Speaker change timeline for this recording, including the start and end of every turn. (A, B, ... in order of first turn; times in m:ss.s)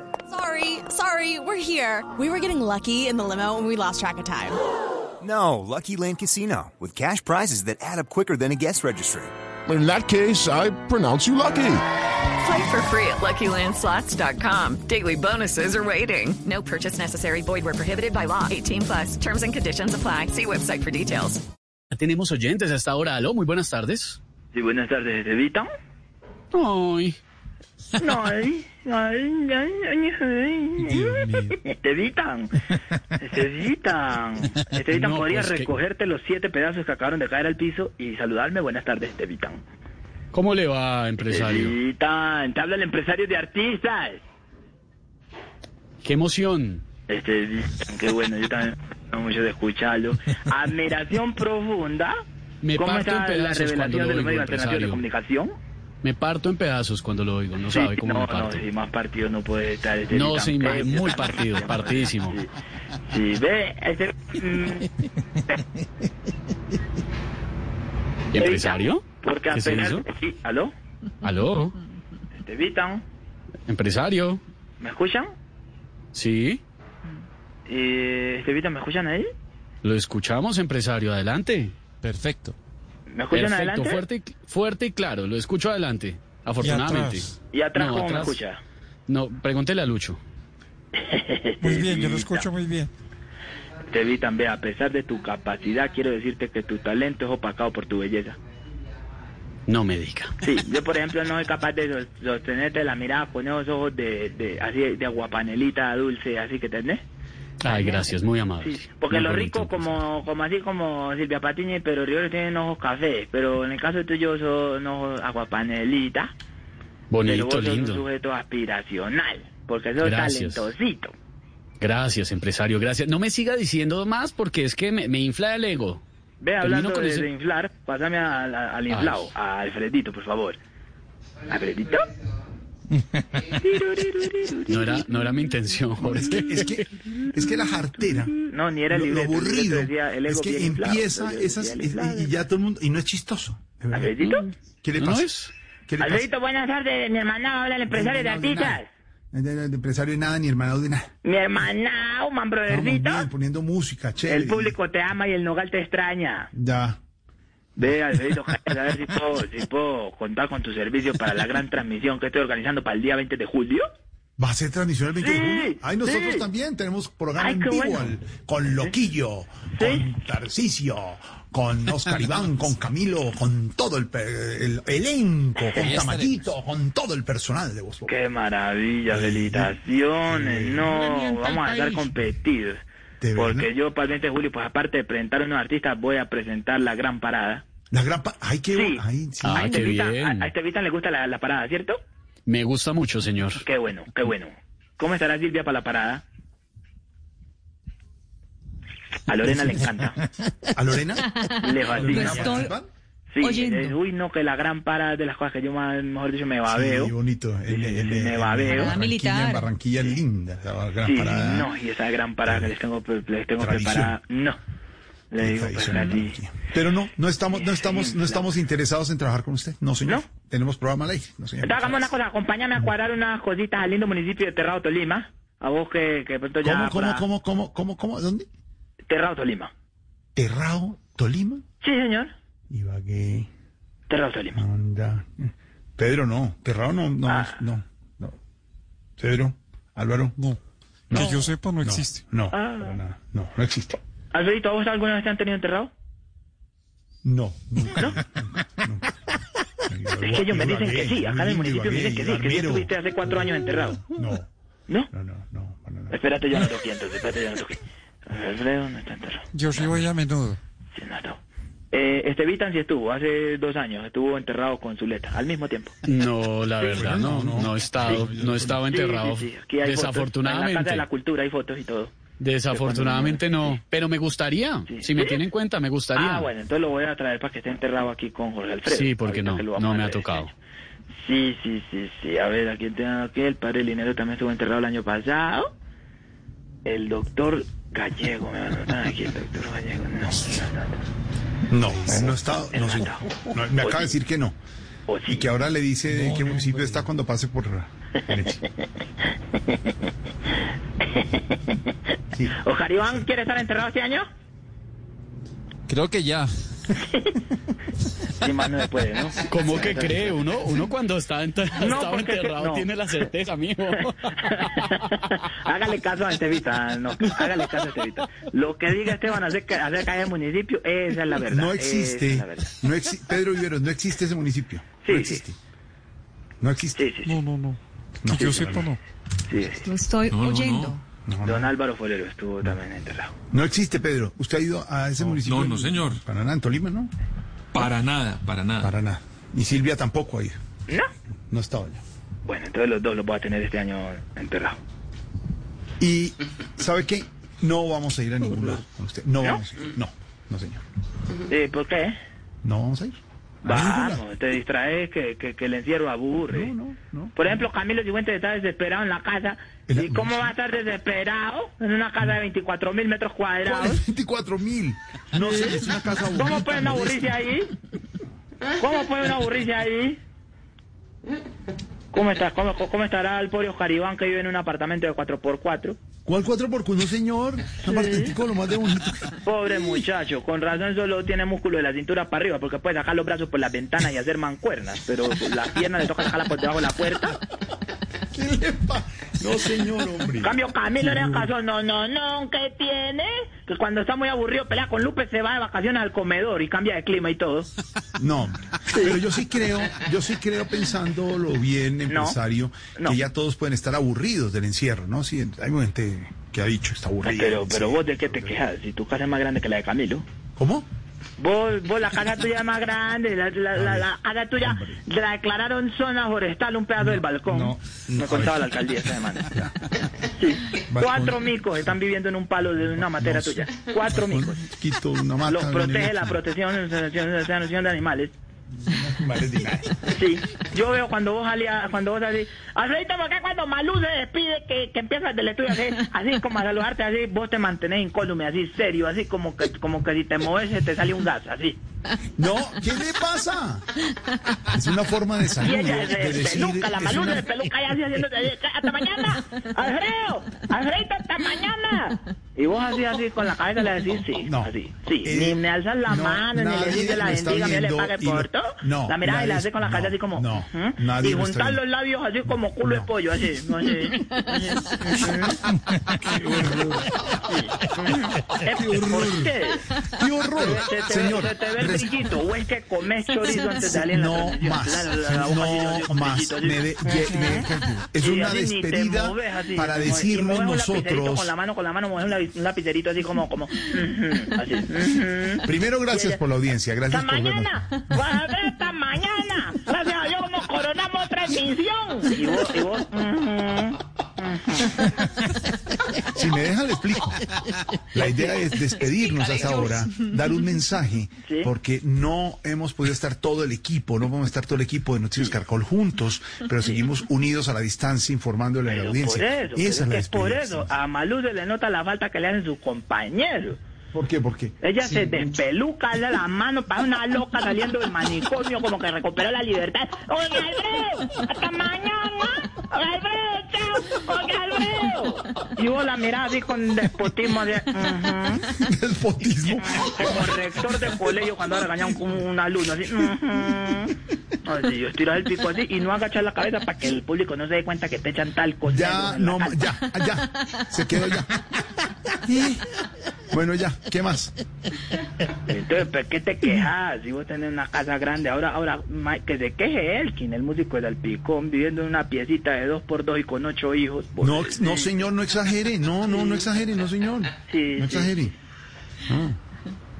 0:00.3-0:04.6 A
0:05.3-0:05.7 B
0:06.2-0:09.3 C
0:09.7-0:11.8 D
0:12.4-0:21.4 E
0:21.9-0:24.2 F
0:24.5-0:25.7 G
0:26.5-0:27.2 F
0:28.0-0:32.5 G
0:33.2-0:39.6 G
0:34.9-0:35.7 F
0:40.3-0:41.8 F
0:41.3-0:44.2 G
0:46.0-0:46.8 F
0:47.1-0:52.1 G
0:52.6-0:55.0 F
0:52.7-0:55.5 G
0:56.0-0:58.6 F
0:57.7-1:02.5 G
1:00.1-1:02.4 F
1:03.0-1:04.9 G
1:08.3-1:10.0 F
1:08.3-1:10.7 G
1:11.2-1:11.7 F
1:12.3-1:13.0 G
1:13.7-1:14.4 F
1:14.8-1:15.3 G
1:16.1-1:16.6 F
1:17.7-1:19.3 G
1:19.8-1:22.2 F
1:23.1-1:24.0 G
1:23.3-1:28.4 F
1:26.6-1:27.3 H
1:27.5-1:28.6 G
1:29.1-1:30.2 F
1:30.9-1:32.5 G
1:31.6-1:32.9 H
1:33.9-1:38.4 G
1:39.7-1:40.3 F
1:40.4-1:47.0 G
1:47.6-1:49.9 F
1:47.6-1:56.3 G
1:57.1-1:58.0 F
1:57.2-2:01.1 G
2:00.0-2:00.7 F
2:01.8-2:06.0 F
2:06.4-2:10.6 G
2:06.6-2:07.3 F
2:08.9-2:09.3 F
2:11.5-2:12.1 G
2:13.5-2:15.0 G
2:14.7-2:16.7 F
2:16.0-2:18.4 B
2:18.4-2:22.4 G
2:18.9-2:24.1 B
2:23.9-2:24.4 G
2:24.2-2:25.5 F
2:24.8-2:25.2 B
2:25.9-2:26.3 B
2:26.0-2:28.9 G
2:27.9-2:31.1 B
2:31.2-2:33.3 G
2:32.7-2:34.7 B
2:34.2-2:36.5 G
2:36.5-2:37.0 B
2:37.8-2:43.8 G
2:44.4-2:58.1 B
2:45.2-2:46.4 G
2:47.4-2:48.1 G
2:49.8-2:50.1 G
2:58.1-3:02.8 G
2:59.1-2:59.7 B
3:00.3-3:00.8 B
3:01.1-3:02.0 H
3:03.2-3:03.7 B
3:03.3-3:07.6 G
3:07.9-3:09.8 B
3:08.7-3:12.0 G
3:09.4-3:10.5 F
3:12.5-3:13.6 F
3:13.6-3:16.2 G
3:19.3-3:20.2 G
3:20.7-3:22.8 B
3:21.3-3:22.7 E
3:21.6-3:22.7 G
3:23.3-3:27.1 G
3:23.4-3:24.0 E
3:26.6-3:31.7 B
3:27.6-3:29.0 G
3:28.6-3:29.7 E
3:31.0-3:34.6 G
3:32.4-3:32.7 B
3:33.6-3:34.2 B
3:35.3-3:36.4 G
3:35.4-3:42.1 B
3:37.5-3:38.5 G
3:41.6-3:47.2 G
3:46.6-3:48.5 B
3:49.1-3:49.7 G
3:50.4-3:51.6 B
3:51.8-3:52.3 G
3:52.7-3:53.5 B
3:54.1-3:54.6 G
3:54.5-3:58.4 B
3:57.2-3:57.6 G
3:59.2-4:00.4 B
4:01.1-4:04.0 B
4:01.1-4:02.2 H
4:02.5-4:03.0 G
4:04.3-4:05.9 G
4:07.2-4:09.1 B
4:09.8-4:12.9 B
4:10.2-4:14.0 G
4:14.0-4:14.5 B
4:15.1-4:16.1 B
4:16.1-4:19.4 G
4:19.5-4:20.6 H
4:20.9-4:21.4 G
4:21.9-4:25.9 G
4:26.0-4:31.0 F
4:26.9-4:28.7 B
4:28.9-4:32.1 G
4:32.4-4:36.5 F
4:32.7-4:33.4 G
4:34.9-4:35.4 G
4:36.1-4:40.4 G
4:38.9-4:40.5 F
4:41.2-4:45.7 G
4:46.8-4:51.0 G
4:51.7-4:54.6 B
4:52.7-4:53.2 G
4:53.8-4:54.1 G
4:55.1-4:55.5 G
4:55.3-4:58.6 B
4:56.1-4:57.0 H
5:01.1-5:01.8 G
5:02.6-5:04.2 G
5:05.9-5:06.5 F
5:06.9-5:07.4 G
5:08.4-5:10.3 G
5:09.4-5:14.8 F
5:11.8-5:12.9 G
5:14.5-5:22.7 G
5:21.5-5:25.6 B
5:25.0-5:25.4 G
5:26.6-5:27.1 B
5:26.9-5:27.4 G
5:27.2-5:29.0 H
5:28.2-5:28.9 B
5:29.5-5:29.9 G
5:29.8-5:31.0 E
5:30.3-5:31.0 I
5:31.2-5:31.7 B
5:31.4-5:33.3 G
5:33.5-5:37.1 B
5:35.2-5:36.2 I
5:37.7-5:38.9 I
5:38.8-5:40.6 B
5:41.5-5:42.0 B
5:42.4-5:44.8 G
5:46.0-5:50.8 B
5:51.5-5:52.1 G
5:52.6-5:54.2 B
5:53.6-5:56.7 G
5:56.5-5:57.3 B
5:57.4-6:04.0 G
5:59.9-6:00.5 B
6:03.6-6:07.4 B
6:05.4-6:05.8 G
6:06.3-6:07.7 G
6:08.8-6:10.2 G
6:12.1-6:16.0 G
6:16.2-6:19.3 B
6:17.8-6:18.3 G
6:19.4-6:27.4 G
6:28.3-6:30.6 B
6:30.4-6:37.7 G
6:38.2-6:48.5 B
6:38.9-6:39.2 G
6:42.1-6:42.4 G
6:43.0-6:43.2 G
6:47.2-6:50.2 G
6:50.6-6:50.9 B
6:51.4-6:59.5 G
6:53.7-6:55.0 B
6:57.0-6:58.7 B
6:59.5-6:59.8 B
7:00.4-7:04.6 G
7:00.9-7:01.4 B
7:03.1-7:06.3 B
7:05.5-7:08.3 G
7:08.8-7:10.0 B
7:10.1-7:21.8 G
7:22.4-7:23.9 B
7:24.6-7:27.5 B
7:25.6-7:45.5 G
7:34.4-7:34.7 B
7:35.2-7:41.8 B
7:42.8-7:43.1 B
7:46.2-7:47.0 I
7:47.5-7:49.8 G
7:48.8-7:49.5 B
7:50.0-7:52.1 B
7:50.6-7:57.6 G
7:53.6-8:01.5 B
7:58.2-8:06.4 G
8:05.6-8:07.7 B
8:07.1-8:15.1 G
8:16.1-8:17.4 B
8:18.1-8:30.9 B
8:21.4-8:21.7 G
8:28.9-8:33.8 G
8:34.1-8:34.8 B
8:34.8-8:48.7 G
8:48.7-8:50.6 B
8:49.8-8:59.8 G
8:58.9-9:02.8 B
9:03.5-9:04.5 B
9:05.7-9:15.1 G
9:14.4-9:18.5 B
9:16.3-9:16.7 G
9:17.7-9:18.3 G
9:19.3-9:19.6 B